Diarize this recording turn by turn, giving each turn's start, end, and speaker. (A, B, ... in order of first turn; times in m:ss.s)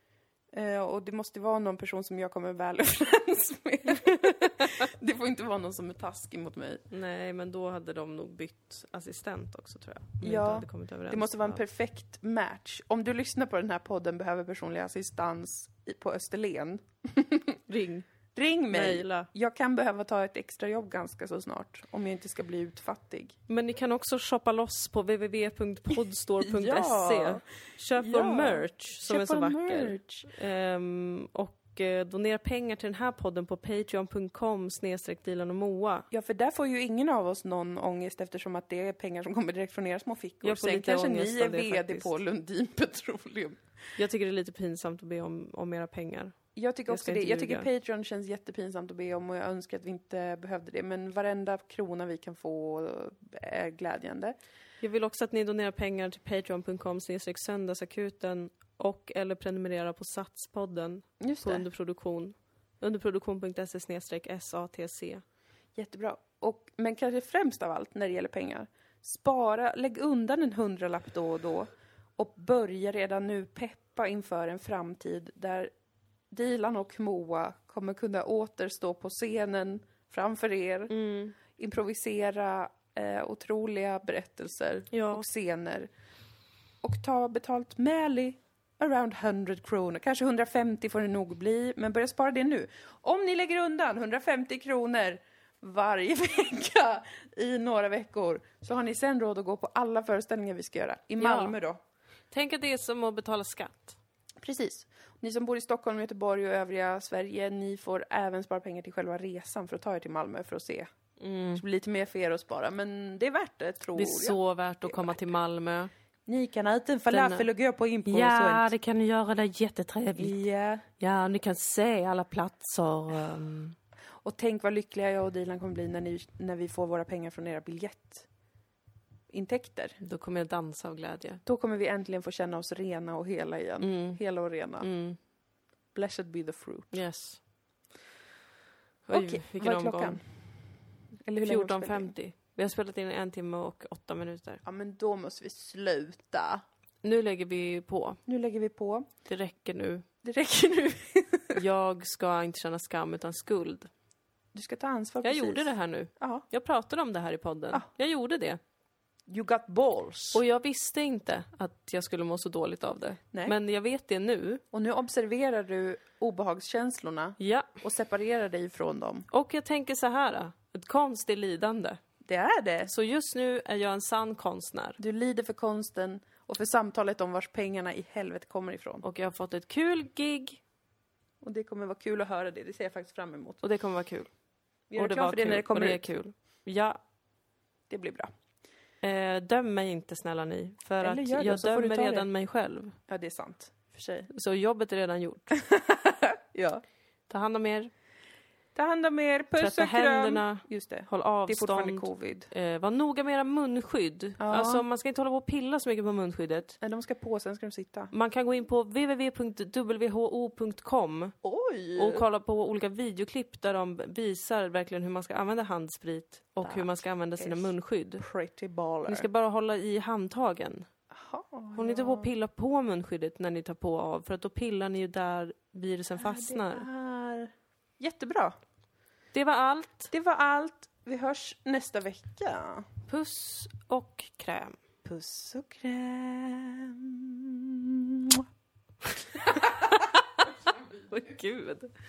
0:00.5-0:06.8 A
0:06.9-0:11.6 B
0:10.2-0:17.6 A
0:17.7-0:18.0 B
0:18.3-0:23.4 A
0:18.7-0:19.3 B
0:23.5-0:36.0 B
0:26.4-0:27.4 A
0:27.9-0:30.3 A
0:36.1-0:43.6 A
0:40.4-0:42.1 B
0:44.0-0:46.4 B
0:46.6-0:54.3 A
0:46.9-0:47.7 B
0:54.8-1:05.2 B
1:01.2-1:01.6 A
1:05.8-1:15.7 A
1:16.3-1:20.9 A
1:20.9-1:21.3 B
1:21.5-1:25.9 A
1:24.9-1:25.2 B
1:26.8-1:41.8 A
1:41.2-1:41.6 B
1:42.3-1:44.0 B
1:44.4-1:50.9 A
1:51.2-1:51.6 B
1:51.5-1:55.2 A
1:54.0-1:55.9 B
1:56.3-1:58.7 A
1:57.1-1:57.5 B
1:58.0-2:00.4 B
2:00.2-2:00.8 A
2:01.0-2:03.8 B
2:04.2-2:08.3 A
2:09.3-2:10.0 A
2:10.0-2:11.4 B
2:11.4-2:14.9 A
2:13.8-2:14.2 B
2:14.8-2:15.2 B
2:15.9-2:17.0 A
2:16.9-2:17.4 B
2:19.0-2:20.2 B
2:19.1-2:20.2 A
2:21.2-2:22.1 A
2:21.4-2:24.6 B
2:24.6-2:26.6 A
2:27.0-2:28.2 B
2:28.3-2:29.1 A
2:29.2-2:30.0 B
2:30.2-2:31.6 A
2:31.5-2:33.9 B
2:34.5-2:36.4 A
2:35.2-2:38.6 B
2:39.3-2:40.4 A
2:40.3-2:44.6 B
2:44.7-2:49.3 A
2:47.4-2:47.7 B
2:49.3-2:52.0 B
2:52.2-2:52.9 A
2:52.8-2:55.0 B
2:55.0-2:59.0 A
2:59.0-3:00.6 B
3:01.4-3:03.6 A
3:03.6-3:04.3 B
3:04.9-3:06.1 A
3:05.0-3:07.0 B
3:07.9-3:08.3 A
3:09.0-3:13.0 B
3:11.0-3:12.3 A
3:13.1-3:14.3 A
3:14.3-3:15.5 B
3:15.6-3:16.8 A
3:17.3-3:17.9 B
3:18.7-3:22.5 A
3:19.6-3:26.8 B
3:24.4-3:24.8 A
3:26.8-3:28.1 A
3:28.1-3:31.3 B
3:31.4-3:32.2 A
3:32.0-3:38.2 B
3:36.6-3:39.3 A
3:39.0-3:40.8 B
3:41.1-3:42.3 A
3:41.7-3:46.8 B
3:46.2-3:48.5 A
3:49.3-3:50.1 B
3:50.1-3:52.8 A
3:53.1-3:54.8 B
3:55.0-3:58.4 A
3:59.3-4:00.1 A
4:00.6-4:01.1 A
4:01.1-4:01.9 B